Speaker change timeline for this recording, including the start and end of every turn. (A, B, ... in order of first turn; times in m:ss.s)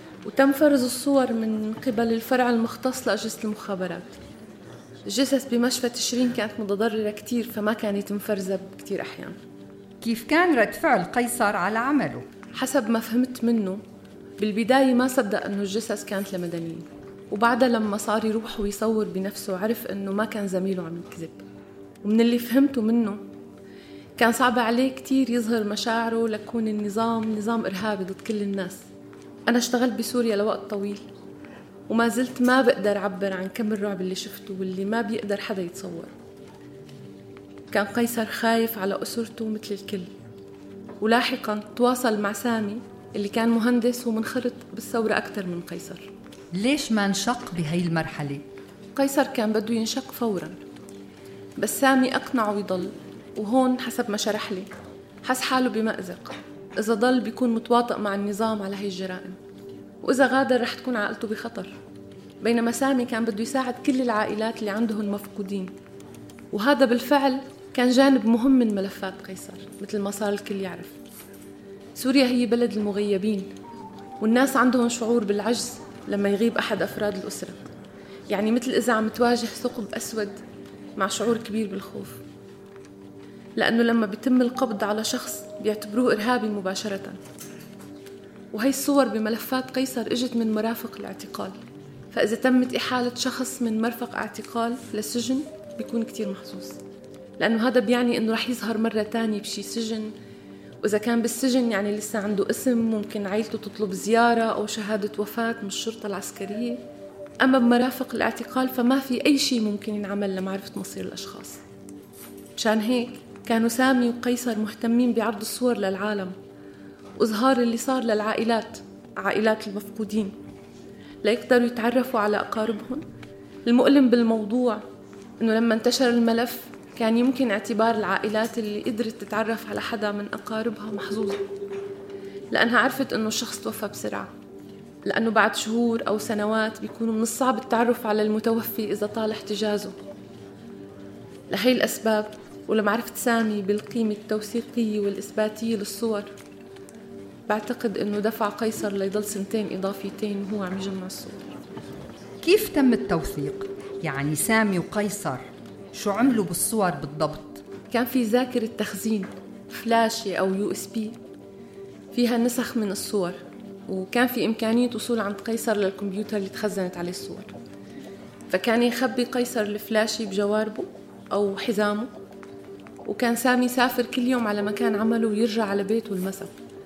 0:00.2-0:04.2 A
0:05.1-0:09.4 A
0:10.0-0:12.3 B
0:12.6-0:13.8 A
0:14.4-0:21.4 A
0:22.0-0:23.2 A
0:24.2-0:28.8 A
0:29.5-0:31.0 A
0:31.9-0:36.1 A
0:37.7-0:40.1 A
0:41.0-0:46.1 A
0:46.6-0:48.4 B
0:49.0-0:50.6 A
0:51.6-0:54.7 A
0:55.2-0:59.4 A
1:00.0-1:01.8 A
1:02.4-1:05.8 A
1:06.5-1:11.0 A
1:12.0-1:13.5 A
1:14.2-1:17.6 A
1:18.3-1:20.4 A
1:21.0-1:22.2 A
1:23.6-1:27.2 A
1:28.5-1:31.6 A
1:32.1-1:36.8 A
1:37.4-1:40.1 A
1:40.8-1:46.8 A
1:47.4-1:51.6 A
1:52.6-1:56.3 A
1:57.2-2:00.4 A
2:01.2-2:03.0 A
2:03.7-2:04.8 A
2:05.4-2:11.4 A
2:12.5-2:14.3 A
2:15.1-2:20.0 A
2:21.5-2:26.3 A
2:27.5-2:31.4 A
2:32.4-2:37.6 B
2:37.9-2:41.2 A
2:42.1-2:43.4 A
2:43.9-2:47.5 A
2:48.5-2:52.1 A
2:53.1-2:56.5 A